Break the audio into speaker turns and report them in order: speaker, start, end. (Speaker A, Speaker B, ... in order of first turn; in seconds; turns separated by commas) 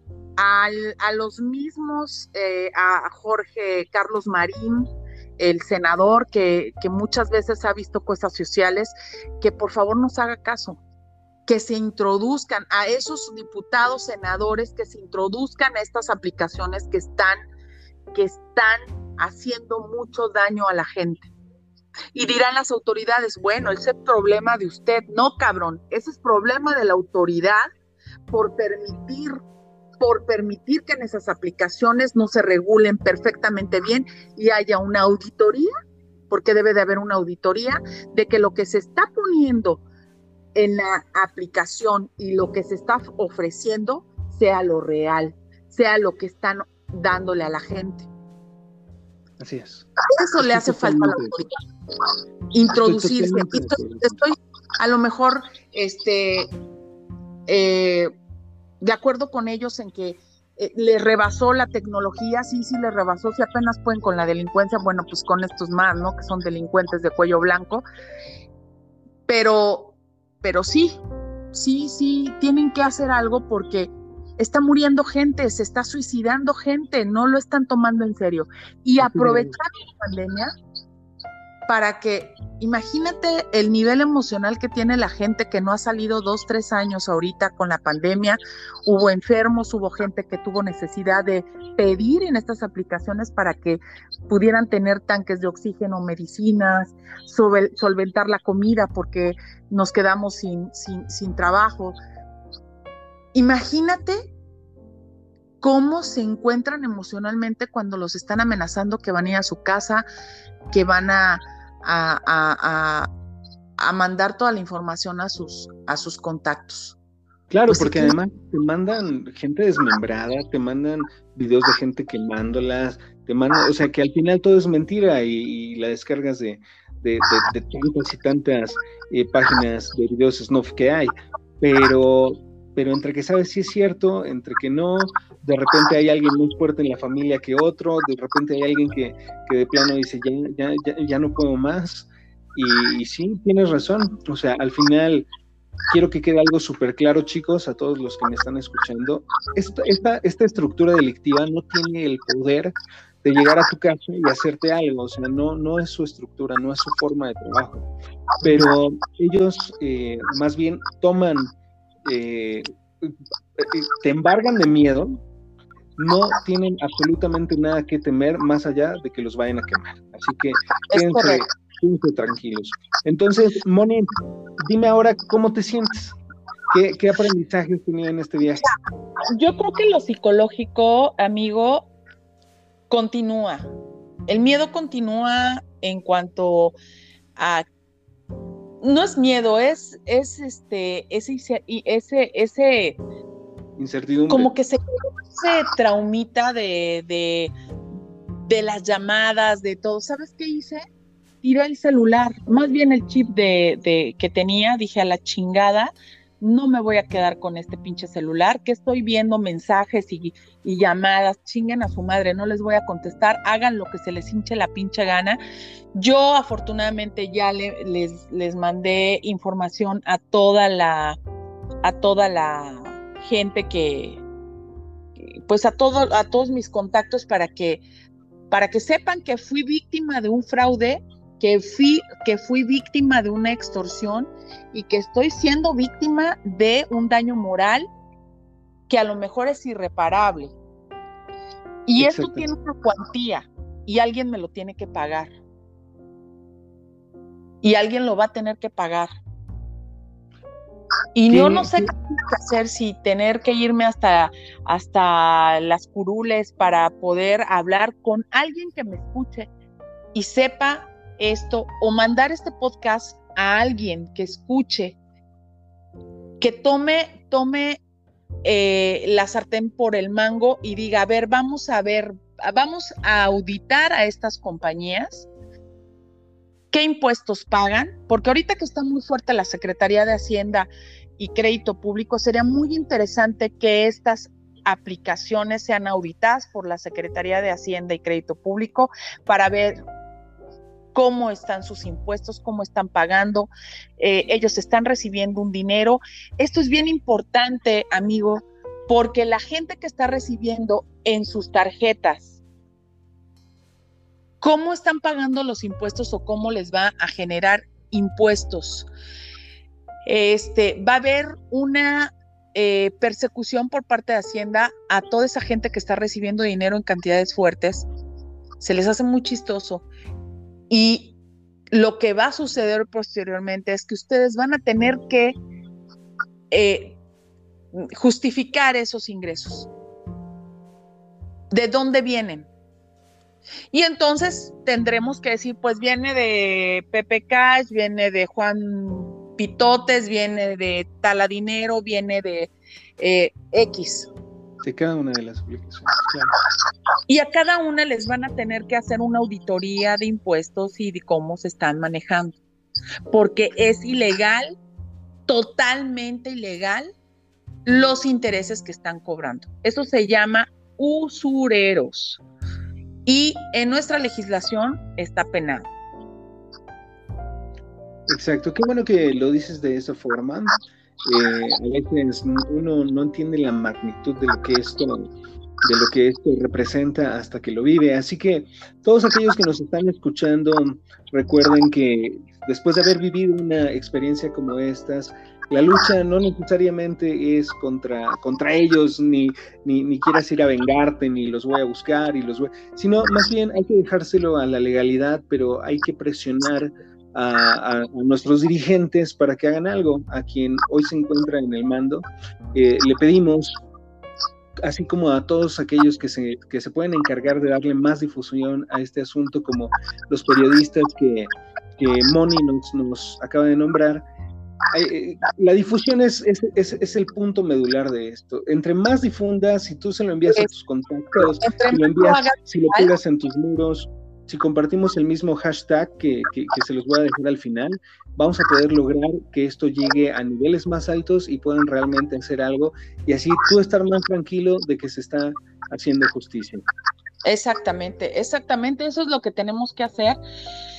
Speaker A: 0.4-10.8, Speaker A: 11.5-17.4, Speaker A: 18.1-21.3, Speaker A: 22.1-27.7, Speaker A: 28.3-29.4, Speaker A: 30.0-35.7, Speaker A: 36.3-39.8, Speaker A: 40.5-48.1, Speaker B: 49.4-49.9, Speaker A: 50.1-51.5, Speaker B: 50.4-51.4, Speaker A: 52.5-56.5, Speaker B: 52.7-54.1, Speaker A: 57.5-58.1, Speaker A: 58.8-67.8, Speaker A: 69.3-71.0, Speaker A: 71.5-80.5, Speaker B: 79.0-79.5, Speaker A: 81.7-102.0, Speaker A: 103.3-104.3, Speaker A: 105.6-110.0, Speaker A: 110.7-113.1, Speaker A: 113.8-117.0, Speaker B: 117.5-145.3, Speaker A: 117.7-118.2, Speaker B: 145.9-157.9, Speaker B: 158.4-161.5, Speaker B: 162.0-165.2, Speaker B: 166.0-176.2, Speaker A: 170.9-171.4, Speaker B: 176.7-178.6, Speaker A: 179.3-181.9, Speaker A: 182.9-183.7, Speaker A: 184.3-186.7, Speaker A: 187.3-187.6, Speaker A: 188.8-193.0, Speaker B: 193.8-194.5, Speaker A: 194.3-197.5, Speaker A: 198.5-200.8, Speaker A: 201.4-215.4, Speaker A: 215.9-221.2, Speaker A: 221.8-224.2, Speaker A: 225.5-227.8, Speaker A: 228.5-237.9, Speaker A: 238.9-240.5, Speaker A: 241.8-245.3, Speaker B: 242.0-242.4, Speaker A: 247.6-249.1, Speaker A: 251.1-259.5, Speaker B: 251.3-251.9, Speaker A: 260.1-265.0, Speaker A: 266.4-267.8, Speaker A: 268.4-275.3, Speaker A: 276.7-289.8, Speaker A: 290.9-302.4, Speaker A: 304.4-308.9, Speaker A: 310.1-317.9, Speaker A: 318.6-319.8, Speaker A: 320.7-321.1, Speaker A: 321.7-325.4, Speaker A: 326.5-327.0, Speaker A: 327.8-329.7, Speaker A: 331.5-332.5, Speaker A: 333.7-344.1, Speaker B: 344.6-346.3, Speaker A: 347.1-352.4, Speaker A: 353.1-354.5, Speaker A: 355.3-356.9, Speaker A: 357.6-362.2, Speaker A: 363.1-365.7, Speaker B: 368.1-370.5, Speaker B: 371.0-375.1, Speaker B: 375.6-403.6, Speaker B: 404.6-414.1, Speaker B: 414.7-436.6, Speaker A: 421.1-422.9, Speaker A: 437.2-440.2